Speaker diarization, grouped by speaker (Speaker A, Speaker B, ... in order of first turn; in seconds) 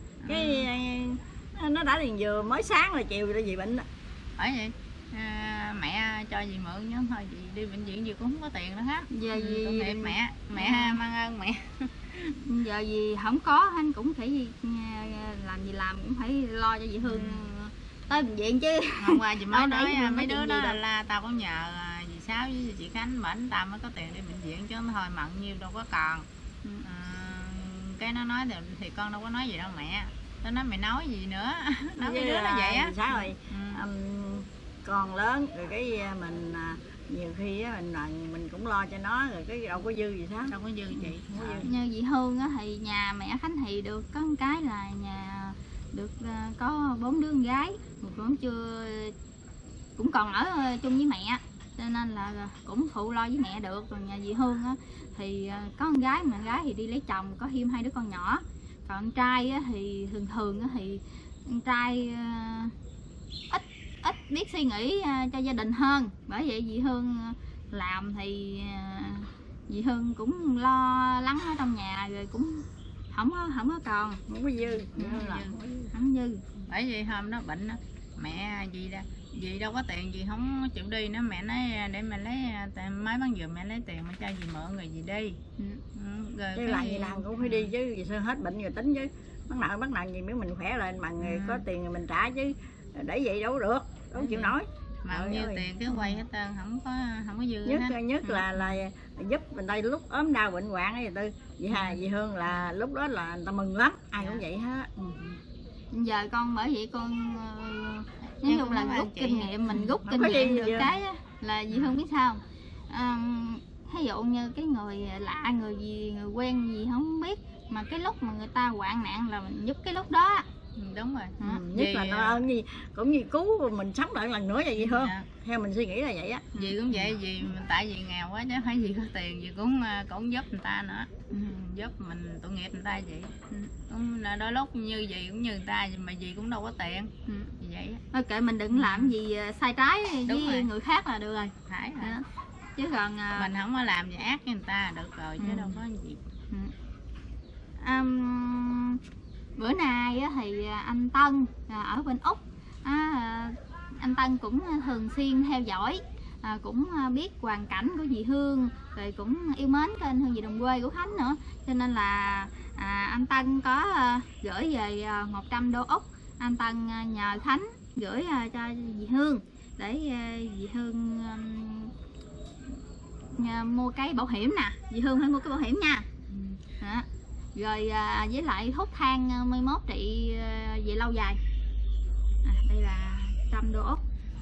Speaker A: 0.2-0.7, 4.4-12.4, 17.0-17.5, 19.0-26.3, 26.8-33.8, 40.5-41.7, 74.6-75.6, 76.7-85.4, 85.9-87.7, 91.2-91.7, 94.2-98.5, 101.7-102.0, 108.4-109.8, 111.7-112.0, 120.8-122.4, 124.8-125.3, 126.5-138.0, 138.7-139.1, 140.3-140.7, 141.7-142.2, 143.4-146.2
Speaker B: 0.3-3.9, 32.0-41.7, 74.3-75.9, 86.5-95.7, 97.7-105.4, 109.8-110.9, 121.4-126.6
Speaker C: 9.1-11.0, 12.4-20.8, 41.6-49.1, 50.0-62.7, 63.5-74.2, 75.0-75.3, 75.9-76.4, 105.9-120.5, 137.3-137.5, 138.1-142.2, 142.8-143.5, 145.4-145.8, 147.8-149.0, 149.6-171.9, 173.4-176.1, 176.8-181.4, 182.4-184.0